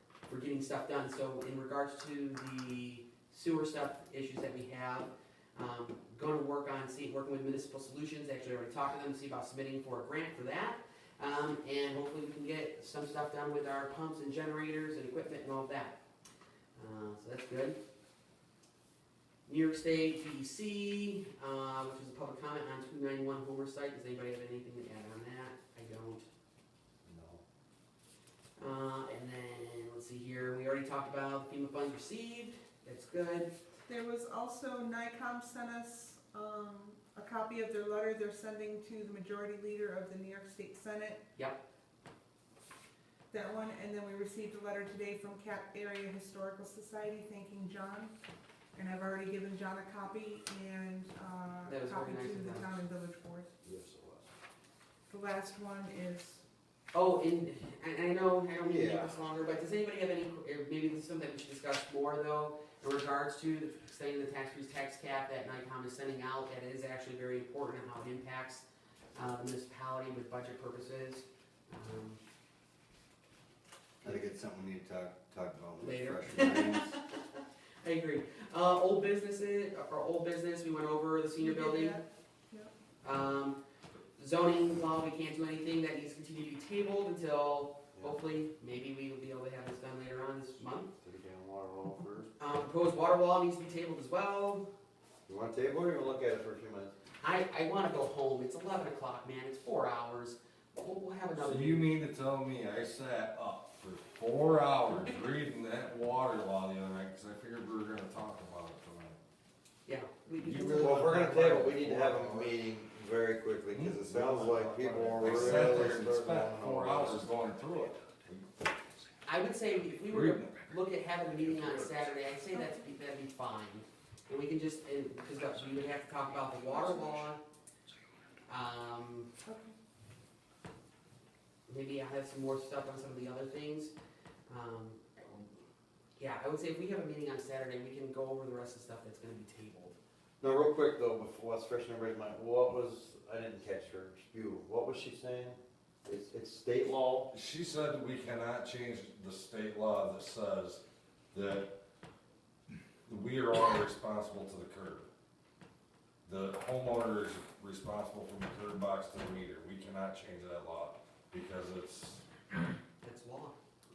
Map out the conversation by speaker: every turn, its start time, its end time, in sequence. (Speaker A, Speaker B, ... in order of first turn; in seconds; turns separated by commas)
Speaker A: 0.2-16.0, Speaker A: 16.8-17.8, Speaker A: 19.5-26.3, Speaker B: 27.0-27.4, Speaker A: 28.6-33.5, Speaker C: 33.9-41.2, Speaker C: 43.3-48.1, Speaker C: 48.7-53.5, Speaker A: 51.6-52.7, Speaker B: 53.6-54.2, Speaker C: 55.1-56.4, Speaker A: 56.9-72.2, Speaker B: 58.6-59.2, Speaker B: 74.0-77.0, Speaker A: 75.8-82.0, Speaker C: 81.4-82.7, Speaker A: 83.0-83.6, Speaker A: 84.2-90.9, Speaker B: 88.0-88.2, Speaker B: 91.0-92.3, Speaker A: 92.4-94.7, Speaker B: 95.3-96.9, Speaker A: 97.2-101.9, Speaker D: 101.4-109.2, Speaker A: 109.8-111.6, Speaker D: 110.4-112.6, Speaker B: 110.5-117.2, Speaker D: 113.7-118.5, Speaker A: 119.2-127.4, Speaker D: 120.1-120.6, Speaker D: 121.5-121.9, Speaker C: 122.5-122.8, Speaker C: 126.8-127.1, Speaker A: 128.5-129.3, Speaker C: 129.4-129.7, Speaker A: 131.7-133.9, Speaker A: 134.5-135.4, Speaker A: 136.2-140.0, Speaker B: 140.4-147.3, Speaker D: 147.3-151.7, Speaker D: 153.1-155.1, Speaker D: 156.2-162.7, Speaker A: 163.0-163.6